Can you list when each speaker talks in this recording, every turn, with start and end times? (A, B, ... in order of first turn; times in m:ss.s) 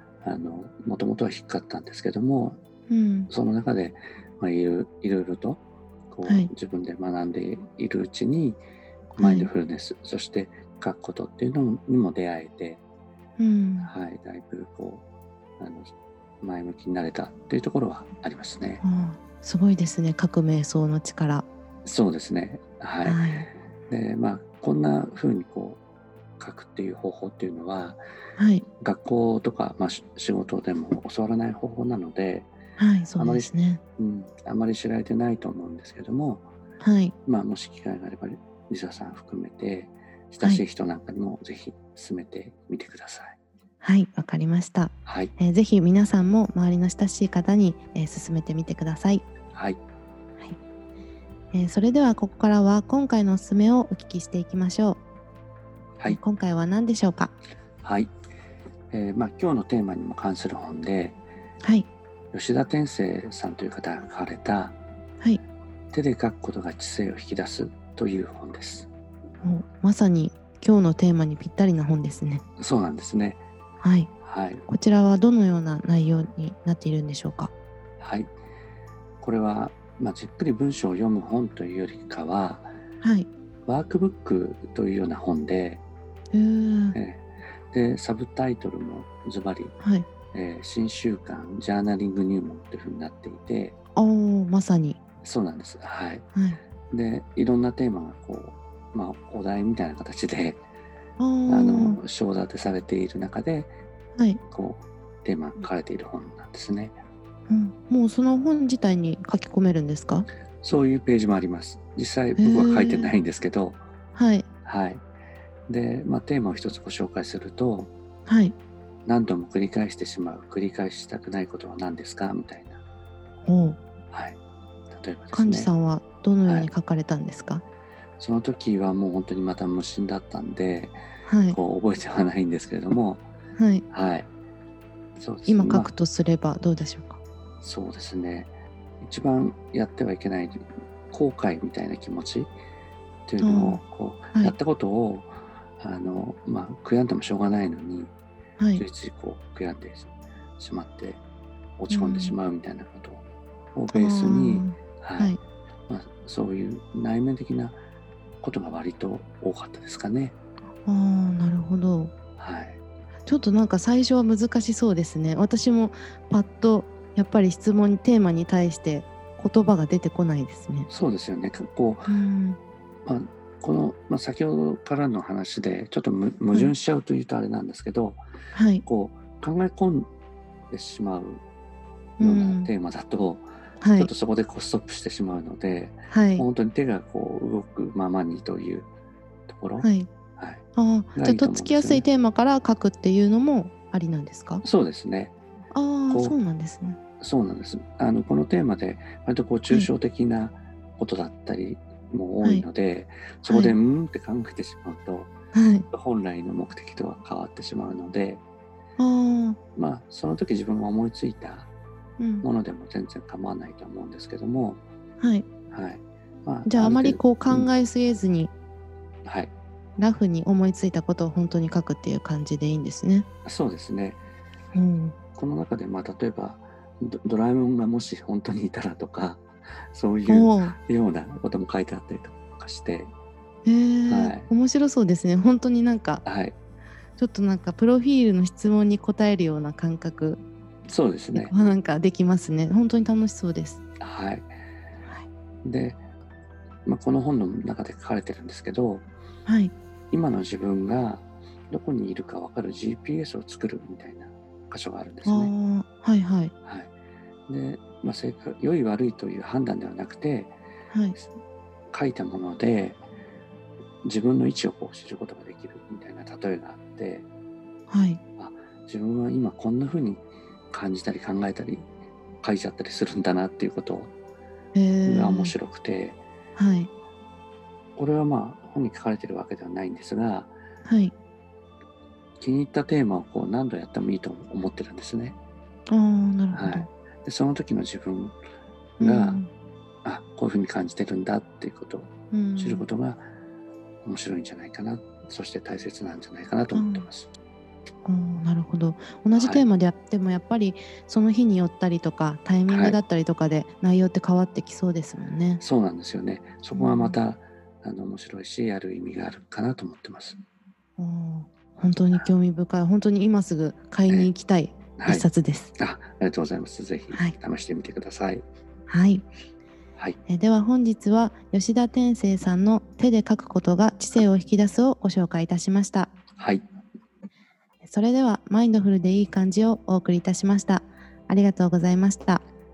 0:00.2-0:02.6 A
0:02.9-0:03.3 B
0:03.3-0:08.6 A
0:09.2-0:12.8 A
0:09.2-0:09.5 B
0:13.4-0:13.9 B
0:13.8-0:15.0 A
0:15.6-0:18.8 A
0:18.8-0:21.5 B
0:21.8-0:23.3 A
0:23.0-0:23.5 B
0:23.9-0:25.8 A
0:26.4-0:28.0 A
0:28.4-0:28.6 B
0:28.8-0:32.5 A
0:32.8-0:33.8 B
0:33.2-0:36.4 A
0:36.8-0:37.1 B
0:37.2-0:43.4 A
0:43.8-0:49.2 B
0:45.0-0:45.3 A
0:51.5-0:55.0 B
0:56.0-0:57.3 B
0:57.8-0:58.1 A
0:58.9-1:01.2 A
1:01.6-1:01.9 B
1:02.3-1:04.8 A
1:05.9-1:08.9 A
1:09.4-1:12.4 B
1:12.6-1:13.4 A
1:13.8-1:14.1 B
1:14.2-1:14.6 A
1:14.7-1:17.5 B
1:18.0-1:18.3 A
1:19.2-1:22.7 A
1:23.0-1:23.3 B
1:23.7-1:25.8 A
1:26.3-1:27.0 B
1:26.9-1:29.7 A
1:29.8-1:30.1 B
1:30.3-1:33.8 A
1:34.0-1:35.0 B
1:35.2-1:36.2 A
1:36.3-1:36.6 B
1:36.9-1:40.6 A
1:41.2-1:42.0 B
1:41.5-1:43.7 A
1:44.5-1:47.0 A
1:47.5-1:50.3 B
1:50.6-1:53.8 A
1:52.4-1:53.2 B
1:54.1-1:54.5 B
1:54.7-1:55.0 A
1:55.7-1:57.9 A
1:58.2-1:58.6 B
1:59.1-2:02.8 A
2:03.4-2:03.8 B
2:04.1-2:04.4 A
2:04.9-2:05.7 A
2:05.3-2:07.6 B
2:06.4-2:06.7 A
2:08.2-2:11.0 A
2:11.2-2:11.6 B
2:11.5-2:13.2 A
2:13.6-2:13.8 B
2:13.9-2:14.3 A
2:15.2-2:15.9 A
2:15.5-2:17.2 B
2:17.6-2:22.5 A
2:23.3-2:28.1 A
2:23.4-2:23.8 B
2:28.6-2:28.8 B
2:28.7-2:31.2 A
2:31.8-2:35.4 A
2:31.9-2:32.4 B
2:33.9-2:35.4 B
2:35.9-2:37.8 A
2:38.4-2:40.4 A
2:40.8-2:42.1 B
2:42.4-2:42.8 A
2:43.2-2:50.9 B
2:50.9-2:52.1 A
2:52.1-2:52.6 B
2:53.1-2:58.2 A
2:58.5-2:58.8 B
2:58.8-3:00.1 A
3:00.7-3:01.4 A
3:02.2-3:02.7 B
3:02.2-3:08.9 A
3:03.8-3:04.1 B
3:06.1-3:06.5 B
3:09.5-3:12.1 A
3:09.8-3:10.1 B
3:10.7-3:14.6 B
3:14.6-3:15.3 A
3:15.7-3:17.0 B
3:16.1-3:16.4 A
3:17.2-3:25.3 A
3:22.4-3:22.7 B
3:23.4-3:23.8 B
3:25.5-3:25.9 B
3:25.9-3:28.4 A
3:29.0-3:29.6 B
3:29.7-3:31.7 A
3:32.2-3:32.4 B
3:32.4-3:34.8 A
3:35.2-3:35.4 B
3:35.7-3:37.7 A
3:36.7-3:38.5 B
3:39.2-3:39.5 A
3:40.0-3:43.3 B
3:43.4-3:44.2 A
3:44.7-3:45.2 B
3:45.3-3:53.1 A
3:50.3-3:50.8 B
3:53.6-3:56.2 B
3:54.1-3:54.5 A
3:56.2-3:56.6 A
3:57.2-4:00.4 B
4:00.9-4:01.6 A
4:01.3-4:03.8 B
4:04.0-4:04.5 A
4:05.6-4:06.0 A
4:06.8-4:09.1 A
4:09.4-4:09.7 B
4:10.1-4:15.5 A
4:15.2-4:16.5 B
4:16.6-4:16.9 A
4:17.5-4:20.5 A
4:20.9-4:21.2 B
4:21.9-4:23.0 A
4:24.0-4:27.3 A
4:27.9-4:28.2 B
4:28.4-4:31.9 A
4:32.4-4:34.1 A
4:34.7-4:35.6 B
4:35.0-4:36.2 A
4:36.6-4:36.9 B
4:38.0-4:40.5 A
4:40.8-4:41.1 B
4:42.4-4:45.4 A
4:45.9-4:46.9 B
4:46.5-4:48.4 A
4:49.0-4:49.4 A
4:49.0-4:49.5 B
4:50.0-4:53.3 A
4:52.3-4:52.8 B
4:54.0-4:57.3 A
4:56.7-4:57.1 B
4:58.0-5:05.6 B
4:59.3-4:59.7 A
5:02.7-5:03.0 A
5:05.6-5:10.4 A
5:06.7-5:07.2 B
5:11.0-5:15.7 B
5:15.0-5:15.2 A
5:15.8-5:18.4 A
5:18.9-5:19.2 B
5:20.2-5:26.1 B
5:26.4-5:26.6 A
5:27.8-5:32.4 B